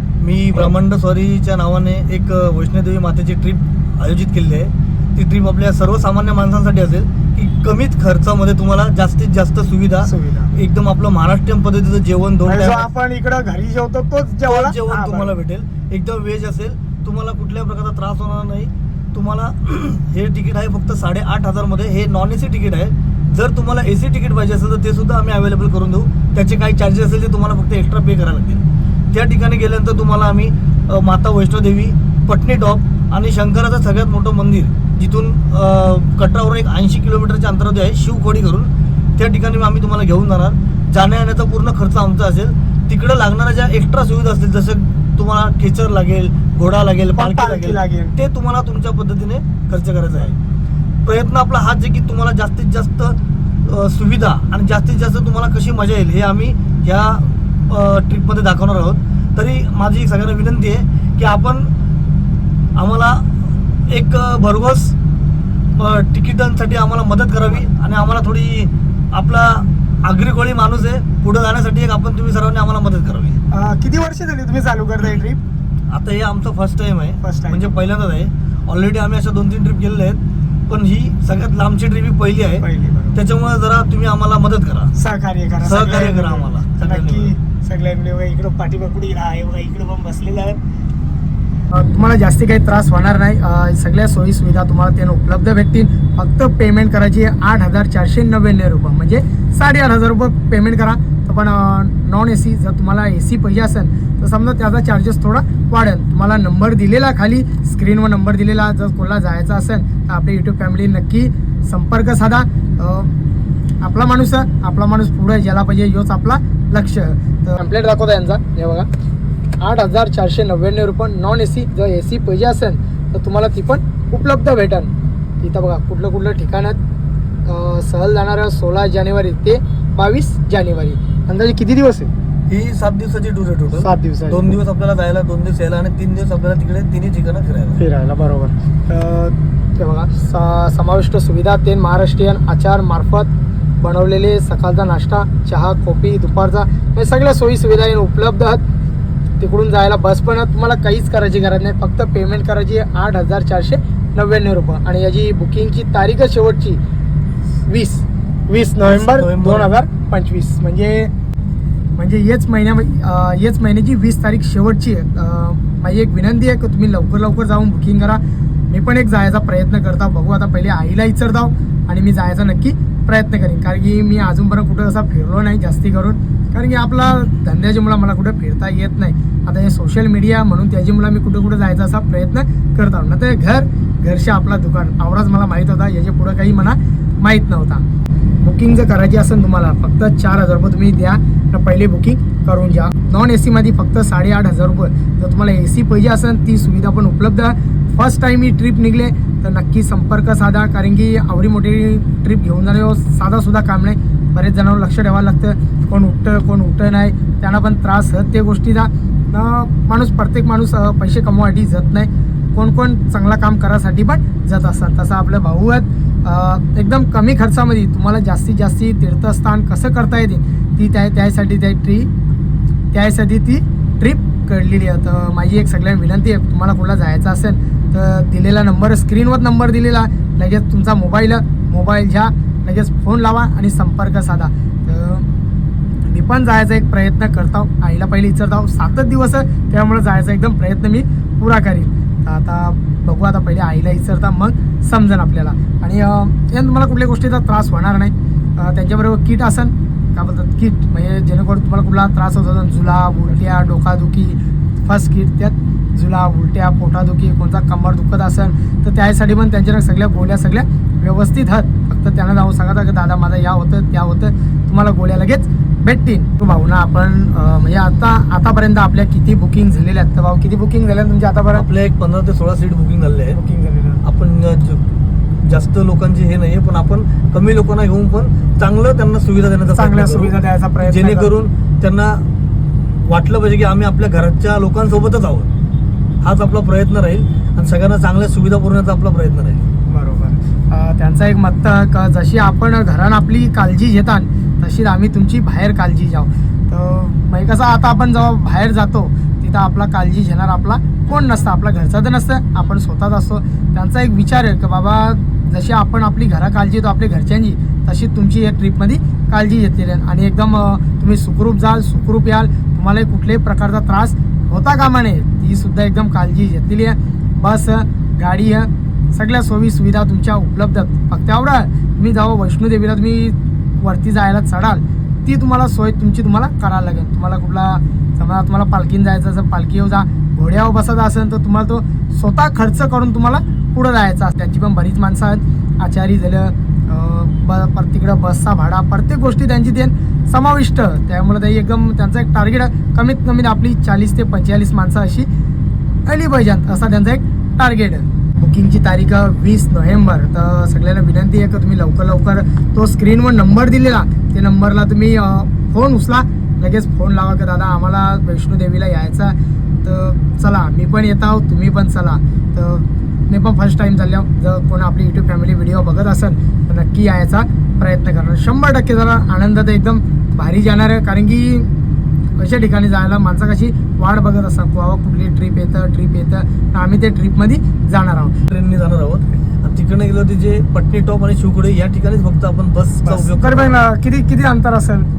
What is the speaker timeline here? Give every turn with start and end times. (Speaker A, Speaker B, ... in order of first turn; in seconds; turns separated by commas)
Speaker A: 0.2-12.8, Speaker B: 10.0-10.5, Speaker B: 12.4-15.3, Speaker A: 14.5-50.4, Speaker B: 47.1-48.2, Speaker A: 51.0-61.7, Speaker A: 62.8-64.9, Speaker A: 65.8-73.4, Speaker B: 73.5-75.4, Speaker A: 75.9-84.9, Speaker B: 77.2-77.9, Speaker B: 82.6-83.2, Speaker B: 85.0-90.6, Speaker A: 85.6-87.3, Speaker B: 91.7-113.1, Speaker B: 113.8-118.9, Speaker B: 119.6-126.8, Speaker B: 127.5-132.1, Speaker A: 132.5-137.8, Speaker B: 133.8-134.6, Speaker B: 137.8-148.6, Speaker B: 149.4-156.8, Speaker B: 157.7-161.1, Speaker A: 158.8-159.7, Speaker B: 162.0-168.2, Speaker B: 168.7-187.8, Speaker B: 188.4-222.1, Speaker B: 222.9-235.3, Speaker B: 236.1-271.6, Speaker A: 271.5-273.4, Speaker B: 273.3-274.0, Speaker A: 274.0-274.8, Speaker A: 275.4-282.2, Speaker B: 279.7-281.3, Speaker A: 283.0-285.5, Speaker A: 286.2-289.6, Speaker B: 289.9-345.3, Speaker B: 346.1-371.7, Speaker B: 372.4-378.4, Speaker A: 378.5-383.8, Speaker B: 383.0-385.1